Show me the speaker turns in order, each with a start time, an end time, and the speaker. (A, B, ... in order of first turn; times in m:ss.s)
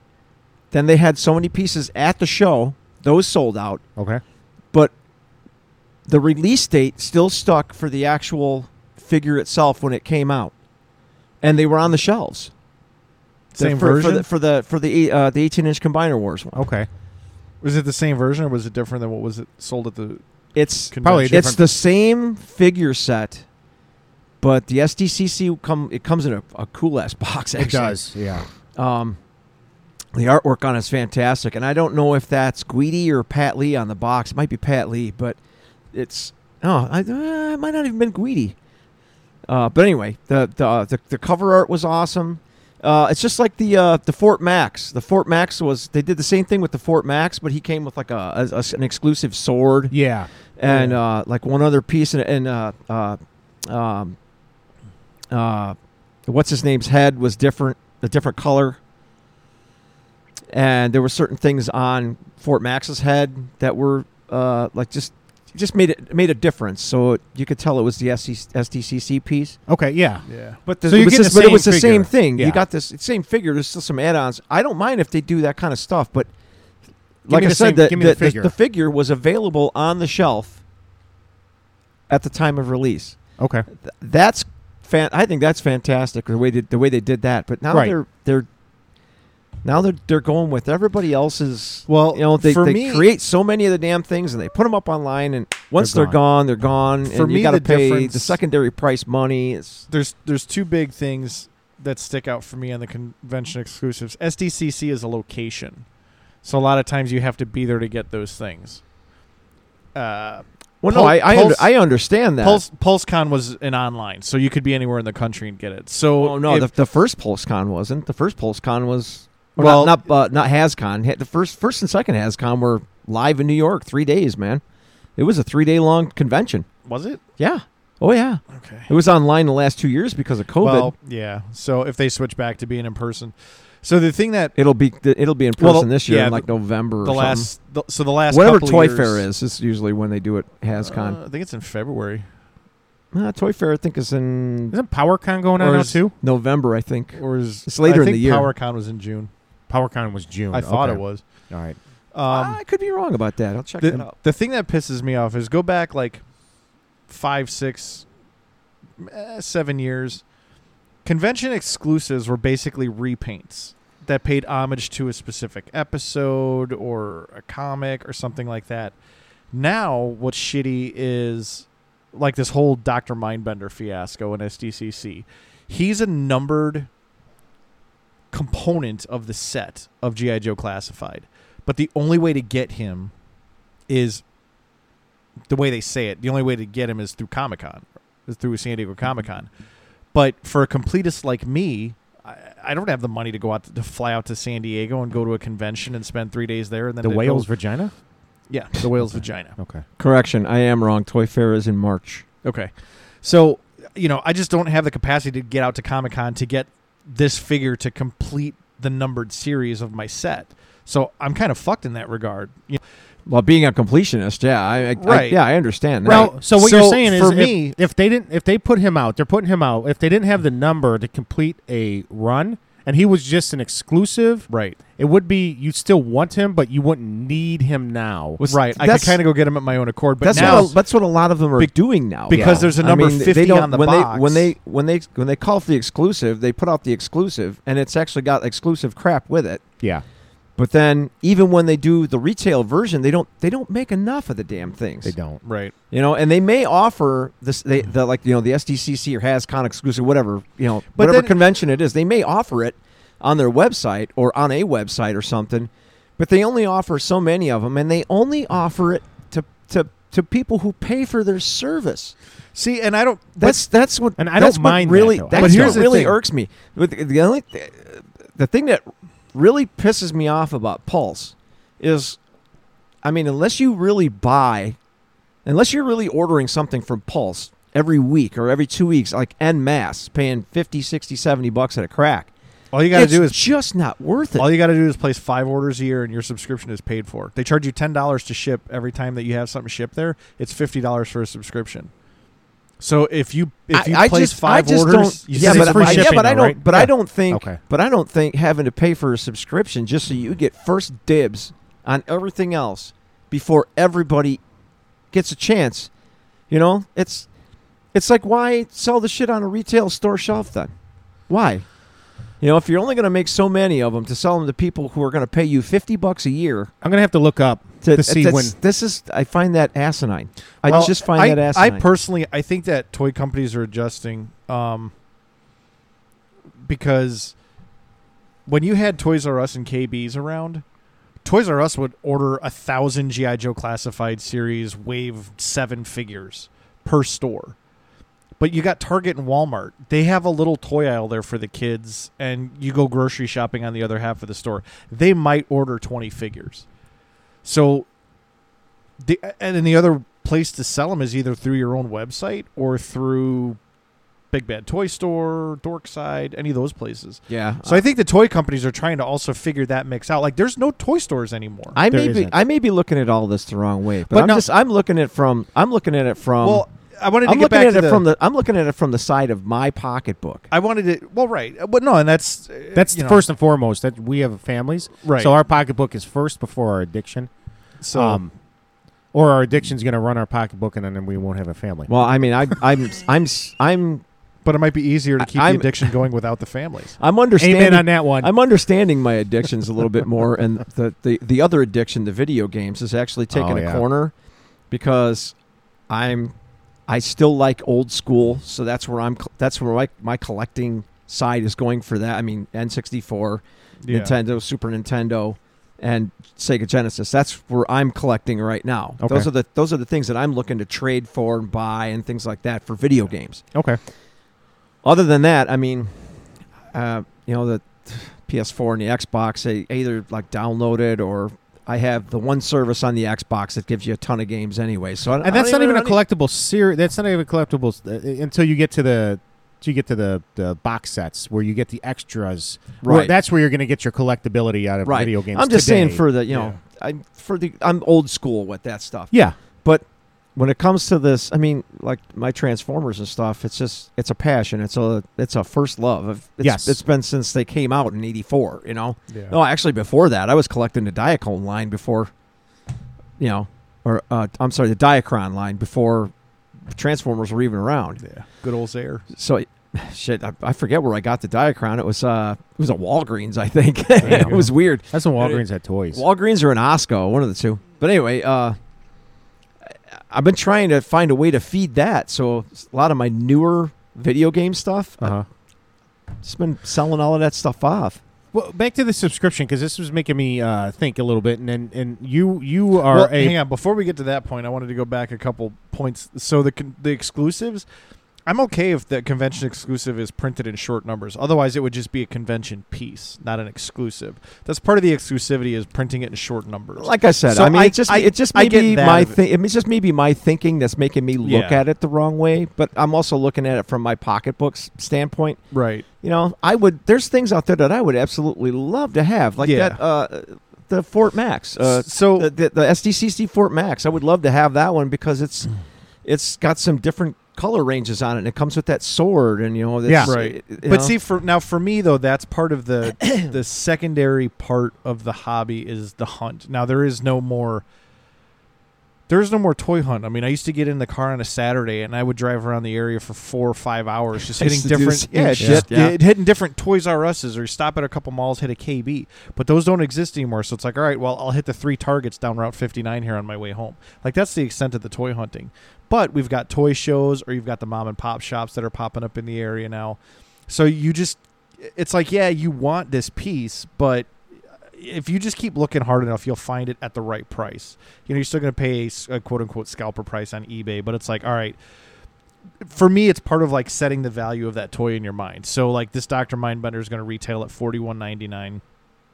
0:00.7-0:03.8 A
0:04.0-0:04.2 B
0:06.1-0:10.5 A
0:11.4-0:12.5 A
0:13.5-0:14.2 C
0:13.6-0:16.6 A
0:16.5-0:16.9 B
0:17.6-0:20.2 C
0:20.6-0:23.4 A
0:20.9-0:21.5 C
0:21.0-0:21.6 B
0:24.4-0:28.0 A
0:27.6-0:28.4 B
0:28.8-0:29.2 A
0:30.1-0:35.4 A
0:35.9-0:38.6 A
0:39.5-0:50.0 A
0:49.9-0:50.3 B
0:50.6-0:54.2 A
0:50.7-0:51.0 C
0:55.3-0:58.8 A
1:00.5-1:09.6 A
1:09.7-1:10.2 B
1:10.3-1:10.6 C
1:10.7-1:16.3 A
1:10.8-1:12.6 B
1:17.3-1:20.6 A
1:17.3-1:18.5 B
1:22.1-1:23.2 A
1:23.4-1:23.7 B
1:23.8-1:28.5 A
1:29.6-1:39.8 A
1:31.9-1:33.1 C
1:35.8-1:36.2 B
1:37.1-1:38.4 C
1:39.9-1:45.8 C
1:46.4-1:48.8 C
1:50.0-1:51.7 C
1:50.8-1:52.6 A
1:52.4-1:56.7 C
1:56.2-2:04.6 A
1:59.6-2:00.0 C
2:05.2-2:06.7 A
2:06.8-2:07.2 C
2:07.4-2:10.9 A
2:08.5-2:08.9 C
2:10.6-2:14.6 C
2:14.6-2:17.5 A
2:15.6-2:16.5 C
2:17.0-2:19.2 C
2:18.3-2:21.2 A
2:20.8-2:22.3 C
2:23.1-2:24.8 A
2:24.7-2:26.1 B
2:25.6-2:26.0 C
2:26.2-2:28.5 A
2:27.2-2:29.3 C
2:29.7-2:31.8 B
2:30.5-2:31.2 C
2:32.1-2:32.6 C
2:32.3-2:34.1 A
2:33.8-2:36.2 C
2:37.1-2:38.1 C
2:39.0-2:40.2 C
2:41.0-2:49.0 C
2:49.5-2:56.9 C
2:58.3-3:03.1 C
3:03.9-3:04.2 C
3:05.5-3:09.5 C
3:10.1-3:17.5 C
3:17.0-3:17.9 B
3:18.5-3:19.6 C
3:19.0-3:19.8 B
3:20.0-3:22.2 A
3:22.4-3:22.7 C
3:23.2-3:32.8 C
3:33.3-3:36.3 A
3:35.0-3:35.4 C
3:36.0-3:37.8 C
3:36.0-3:48.4 B
3:44.5-3:44.8 C
3:48.4-3:49.2 A
3:48.5-3:50.8 C
3:50.2-3:59.6 A
3:50.3-3:50.7 B
3:51.6-3:54.5 C
3:52.3-3:52.7 B
4:00.6-4:05.1 A
4:05.0-4:05.4 B
4:05.4-4:05.7 C
4:05.9-4:22.2 A
4:11.0-4:11.3 C
4:22.6-4:23.6 C
4:23.4-4:32.2 A
4:24.2-4:25.9 B
4:25.3-4:26.2 C
4:33.0-4:34.8 A
4:35.4-4:42.3 A
4:42.7-4:43.4 C
4:42.9-4:44.5 A
4:44.4-4:51.9 C
4:52.8-4:56.4 C
4:53.7-5:04.4 A
4:55.4-4:57.6 B
5:05.1-5:05.9 A
5:06.5-5:07.3 A
5:07.9-5:10.7 A
5:11.3-5:11.7 A
5:12.4-5:16.7 A
5:16.8-5:18.6 B
5:17.8-5:21.8 A
5:20.6-5:24.9 C
5:26.6-5:27.4 C
5:28.5-5:30.6 C
5:31.2-5:37.6 C
5:38.4-5:46.7 C
5:47.4-5:47.9 C
5:49.0-5:53.6 C
5:54.3-6:01.8 C
5:57.3-5:57.8 A
6:01.7-6:06.6 A
6:01.9-6:02.4 B
6:04.1-6:04.4 B
6:06.4-6:08.0 C
6:07.2-6:10.5 A
6:10.5-6:13.2 C
6:12.8-6:17.3 B
6:15.0-6:15.3 C
6:17.8-6:18.2 C
6:17.9-6:18.3 B
6:19.1-6:21.9 B
6:21.9-6:24.0 A
6:24.4-6:27.0 C
6:25.2-6:25.9 A
6:27.0-6:34.1 A
6:27.4-6:28.3 B
6:33.3-6:33.8 B
6:34.7-6:35.4 A
6:35.9-6:36.3 A
6:36.9-6:53.4 A
6:43.8-6:44.1 C
6:49.0-6:49.3 B
6:53.5-6:53.8 B
6:54.8-6:55.9 A
6:56.7-7:06.0 A
7:05.2-7:16.0 B
7:12.8-7:13.1 A
7:14.8-7:32.1 A
7:16.3-7:16.6 C
7:19.1-7:19.4 B
7:26.4-7:26.8 B
7:29.1-7:29.4 C
7:33.2-7:36.1 A
7:36.7-7:38.0 A
7:38.0-7:39.0 C
7:39.1-7:45.4 A
7:44.0-7:44.5 C
7:44.0-7:46.0 B
7:45.9-7:48.6 A
7:50.1-7:55.2 A
7:55.0-7:55.3 B
7:56.2-7:58.0 A
7:58.3-8:03.4 B
8:02.9-8:07.7 C
8:08.3-8:19.2 C
8:16.8-8:25.4 A
8:21.2-8:21.6 C
8:25.5-8:25.9 C
8:26.0-8:35.5 A
8:29.4-8:29.8 C
8:31.6-8:32.3 C
8:36.0-8:40.9 A
8:39.9-8:40.1 B
8:40.0-8:47.6 C
8:49.1-9:14.1 C
8:54.3-8:56.0 A
8:55.4-8:55.7 B
9:14.8-9:21.6 C
9:22.6-9:28.6 C